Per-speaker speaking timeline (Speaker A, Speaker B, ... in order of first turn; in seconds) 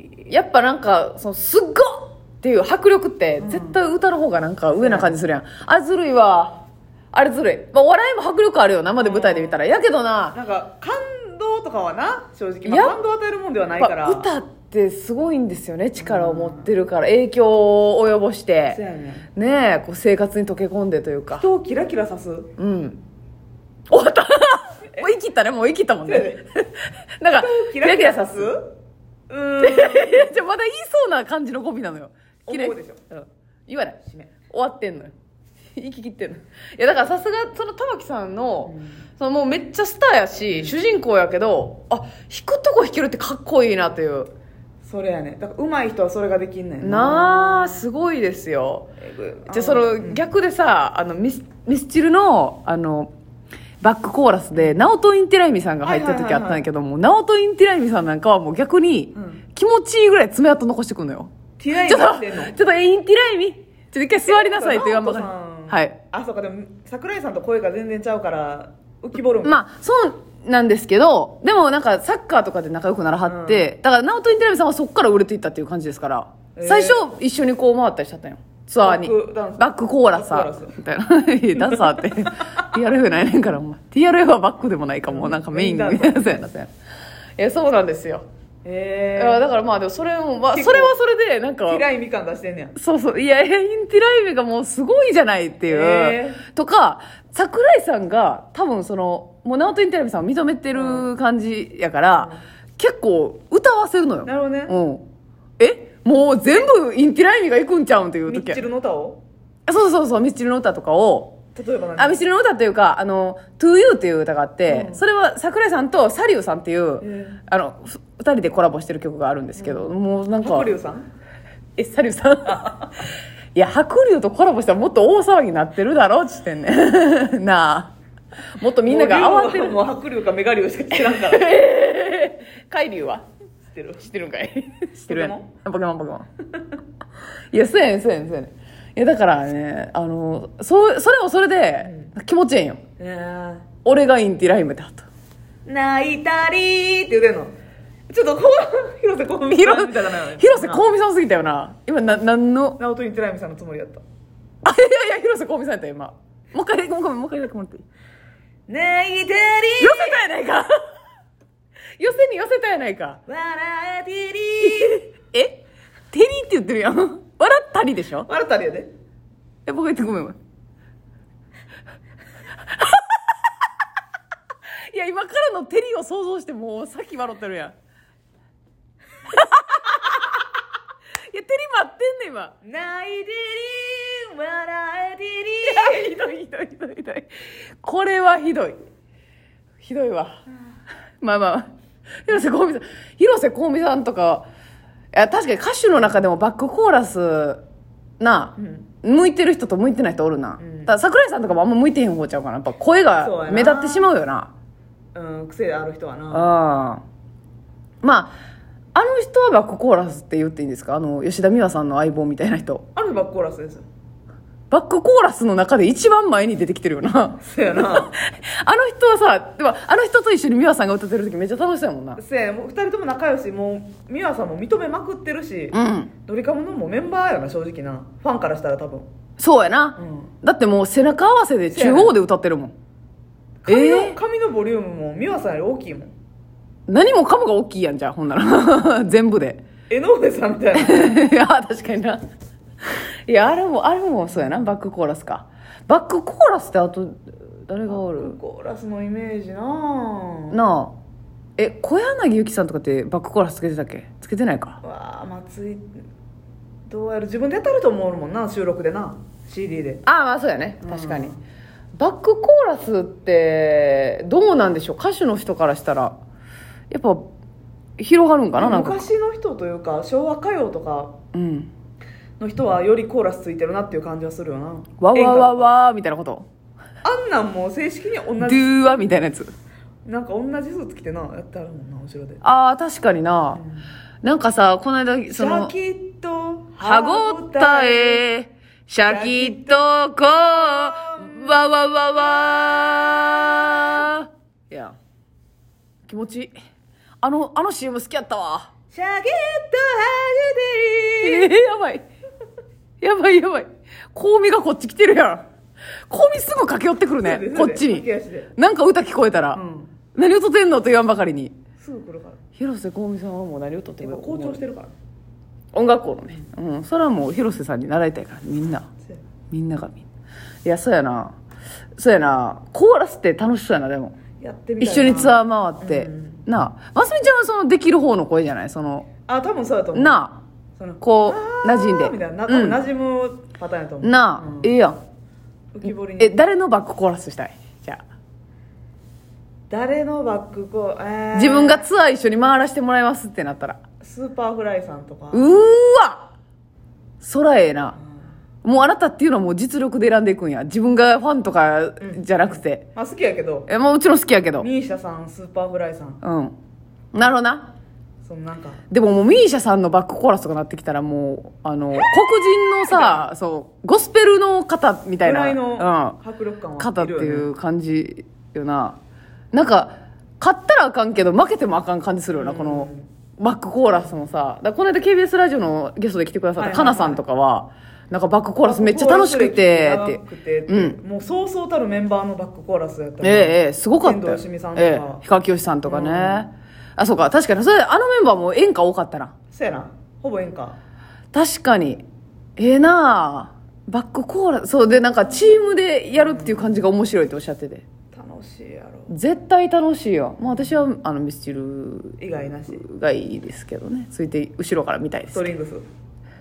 Speaker A: 0.3-10.4, 12.6-13.0, 13.8-18.8, 19.3-21.4, 22.6-23.0, 23.9-26.7, 27.2-28.5, 29.6-35.1, 35.7-44.3, 46.8-48.9, 49.5-53.1, 53.8-66.0, 69.4-86.7, 87.4-88.2, 89.2-91.8, 92.7-105.0, 105.6-108.6, 109.7-111.4, 112.0-120.7, 121.8-122.8, 123.5-127.9, 128.6-129.8, 131.1-133.2, 134.0-136.3, 137.5-142.8, 143.8-145.1, 149.5-152.8, 154.6-157.8, 159.8-160.7, 162.0-163.2, 164.6-168.3, 169.7-170.4, 174.9-177.7, 179.2-180.4, 181.3-182.6, 185.6-187.3, 187.8-188.8, 189.8-190.4, 191.2-191.7, 192.2-194.4, 195.1-197.6, 198.2-204.5, 206.3-207.0, 208.0-208.3, 208.9-212.8, 214.7-222.2, 225.7-226.1, 229.4-232.7, 233.7-234.2, 236.9-239.6, 240.7-242.2, 243.3-248.3, 250.5-250.9, 251.6-254.8, 260.0-261.3, 261.9-266.1, 266.9-267.3, 268.0-269.1, 271.3-271.7, 275.0-276.5, 278.4-279.5, 282.4-283.6, 284.2-285.7, 286.8-294.9, 296.1-296.5, 297.2-298.7, 301.2-302.0, 303.0-305.4, 306.1-309.6, 310.1-311.6, 312.6-314.6, 315.7-318.9, 319.5-320.0, 320.6-321.3, 322.0-324.2, 324.8-329.1, 329.9-330.4, 331.0-332.8, 334.0-335.0, 335.8-338.0, 341.3-343.8, 345.3-346.3, 347.2-348.0, 348.6-352.8, 353.7-354.7, 356.2-356.5, 357.1-357.7, 358.9-366.2, 366.8-369.0, 369.5-381.0, 383.2-389.3, 391.3-392.0, 392.6-397.8, 399.1-402.2, 402.7-405.5
Speaker B: 3.4-3.8, 4.7-5.1, 8.9-9.6, 10.3-14.3, 16.0-16.7, 18.7-19.3, 21.3-22.5, 26.0-26.4, 27.3-28.6, 29.3-30.4, 32.5-33.0, 38.6-39.0, 44.8-47.9, 49.0-50.2, 55.8-56.6, 59.1-59.4, 61.6-62.5, 64.2-69.6, 73.2-73.7, 76.5-77.0, 78.8-80.8, 85.1-86.3, 88.6-89.5, 90.5-90.9, 91.7-92.7, 95.7-96.4, 100.7-101.1, 102.1-102.4, 104.2-104.7, 108.3-109.2, 111.5-112.2, 114.7-115.0, 117.0-117.4, 119.6-121.1, 128.8-131.6, 133.7-134.1, 135.1-135.5, 141.8-142.1, 143.0-143.7, 145.7-147.5, 148.1-150.9, 152.8-154.0, 158.7-160.2, 163.3-165.1, 168.3-168.9, 182.6-186.1, 198.6-198.9, 200.6-200.9, 203.2-204.1, 205.1-206.5, 212.9-213.8, 217.4-218.1, 222.2-229.1, 230.0-230.3, 231.7-232.2, 233.6-236.1, 239.9-241.2, 247.9-250.6, 254.8-255.9, 256.9-260.0, 260.8-261.4, 268.6-271.2, 272.4-275.7, 277.0-279.0, 280.1-282.4, 283.5-283.9, 285.3-288.2, 289.0-289.9, 290.5-291.4, 293.8-294.0, 298.9-301.5, 307.2-308.5, 309.5-309.9, 311.8-312.4, 314.0-314.9, 324.4-326.4, 329.2-330.3, 330.8-334.7, 335.7-336.4, 339.7-341.9, 344.0-345.6, 352.9-353.7, 354.6-356.2, 358.2-358.8, 362.9-363.2, 365.2-367.5, 372.3-373.1, 376.6-377.2, 378.6-385.2, 385.8-386.5, 389.5-390.8, 396.1-396.8, 398.1-399.1, 400.4-400.9, 402.2-402.8, 405.3-405.8